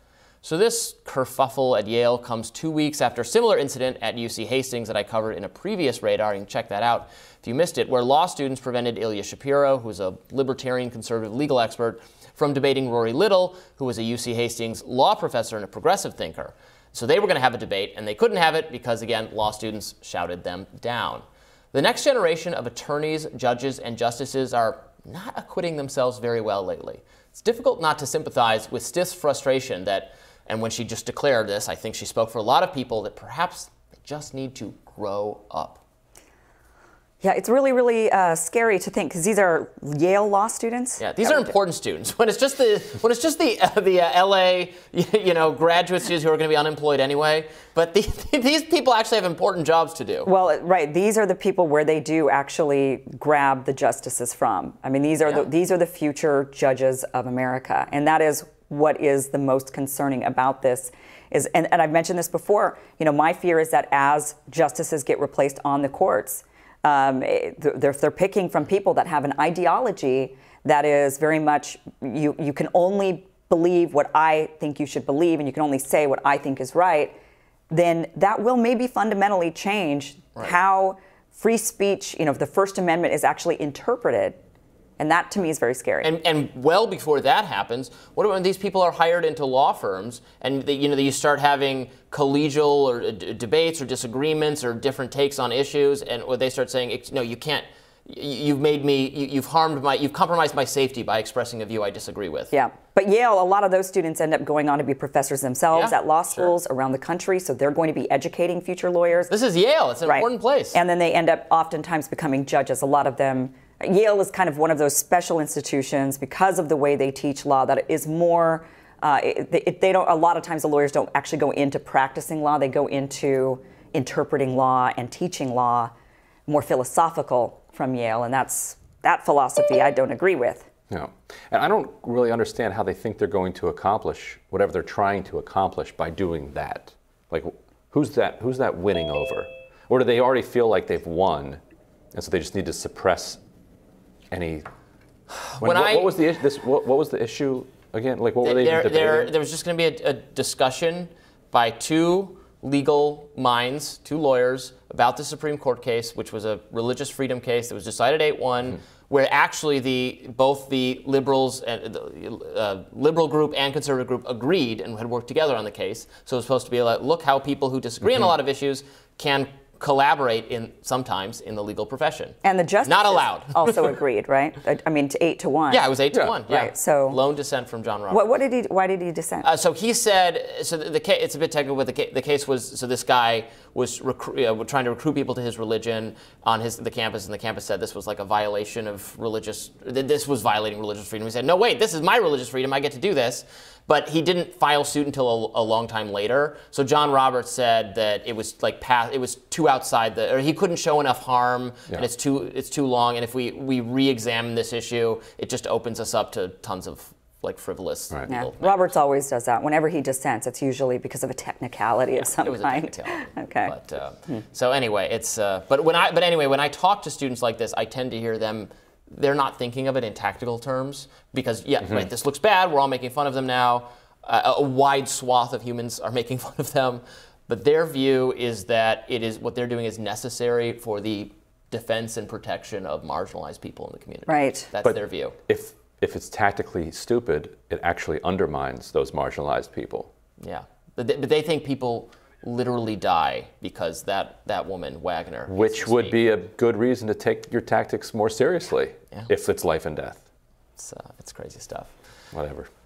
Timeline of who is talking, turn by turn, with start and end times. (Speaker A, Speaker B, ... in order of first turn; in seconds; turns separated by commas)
Speaker A: 0.4-35.8, Speaker B: 37.2-41.5, Speaker A: 41.0-50.3, Speaker B: 50.2-77.2, Speaker B: 77.7-84.4, Speaker B: 85.0-86.1, Speaker A: 86.0-102.5, Speaker B: 102.5-109.3, Speaker A: 105.7-106.5, Speaker A: 109.3-110.8, Speaker B: 110.0-125.9, Speaker B: 126.5-130.7, Speaker C: 130.9-141.6, Speaker C: 142.1-143.4, Speaker C: 144.3-144.7, Speaker A: 145.3-146.2, Speaker C: 145.6-149.3, Speaker A: 148.4-173.9, Speaker B: 172.4-175.9, Speaker A: 175.7-178.3, Speaker B: 176.4-177.2, Speaker B: 178.1-179.5, Speaker A: 179.4-208.9, Speaker B: 208.3-213.8, Speaker A: 212.2-235.4, Speaker B: 234.3-234.7, Speaker C: 234.8-240.1, Speaker A: 240.4-246.2, Speaker C: 245.5-250.2, Speaker A: 250.8-251.9, Speaker C: 252.3-252.7